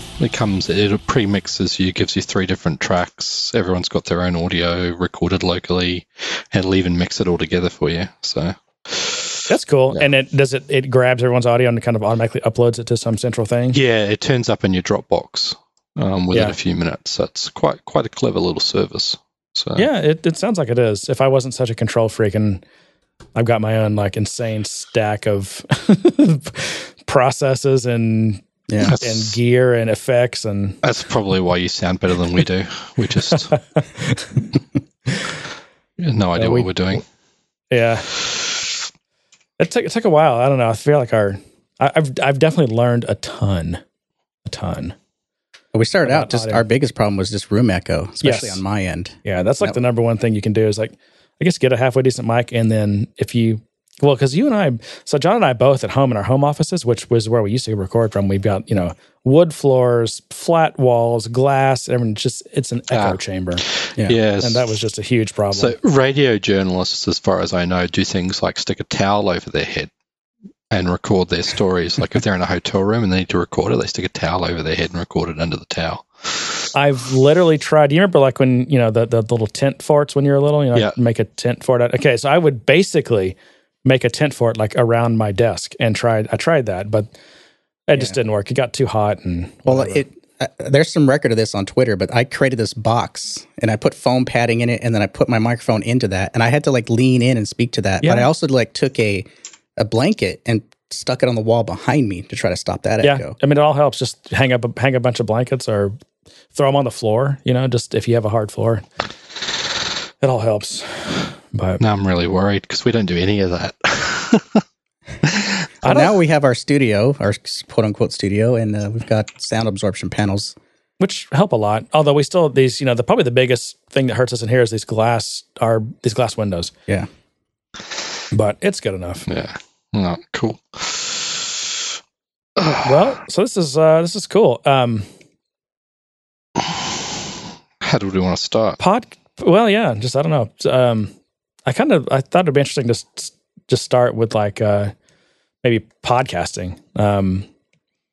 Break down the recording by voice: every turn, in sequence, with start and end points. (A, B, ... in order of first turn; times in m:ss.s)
0:00.2-0:10.1 A
0:09.5-0:13.8 B
0:13.7-0:19.9 A
0:19.8-0:22.6 B
0:23.3-0:30.8 B
0:28.7-0:28.9 C
0:28.8-0:29.3 A
0:30.8-0:33.6 A
0:33.5-0:34.4 B
0:36.0-0:37.0 A
0:36.4-0:36.7 B
0:37.7-0:38.1 B
0:39.6-0:43.8 B
0:44.4-0:45.0 B
0:45.7-0:49.8 C
0:46.0-0:46.6 B
0:48.2-0:48.6 B
0:49.2-1:03.6 B
1:02.9-1:04.7 A
1:04.4-1:05.7 B
1:05.5-1:09.9 A
1:10.7-1:16.7 A
1:16.7-1:27.1 B
1:27.9-1:30.0 B
1:29.7-1:39.2 C
1:38.0-1:38.3 B
1:39.8-1:43.3 C
1:43.0-1:46.0 B
1:46.5-1:48.9 B
1:50.2-1:51.8 B
1:51.8-1:54.6 A
1:55.4-1:55.7 A
1:55.8-2:00.5 C
1:55.8-1:56.1 B
2:01.0-2:06.7 B
2:08.3-2:09.3 B
2:09.3-2:11.8 A
2:12.6-2:13.1 A
2:12.8-2:15.1 B
2:17.8-2:18.8 A
2:18.8-2:21.1 B
2:21.6-2:24.9 B
2:25.6-2:27.4 B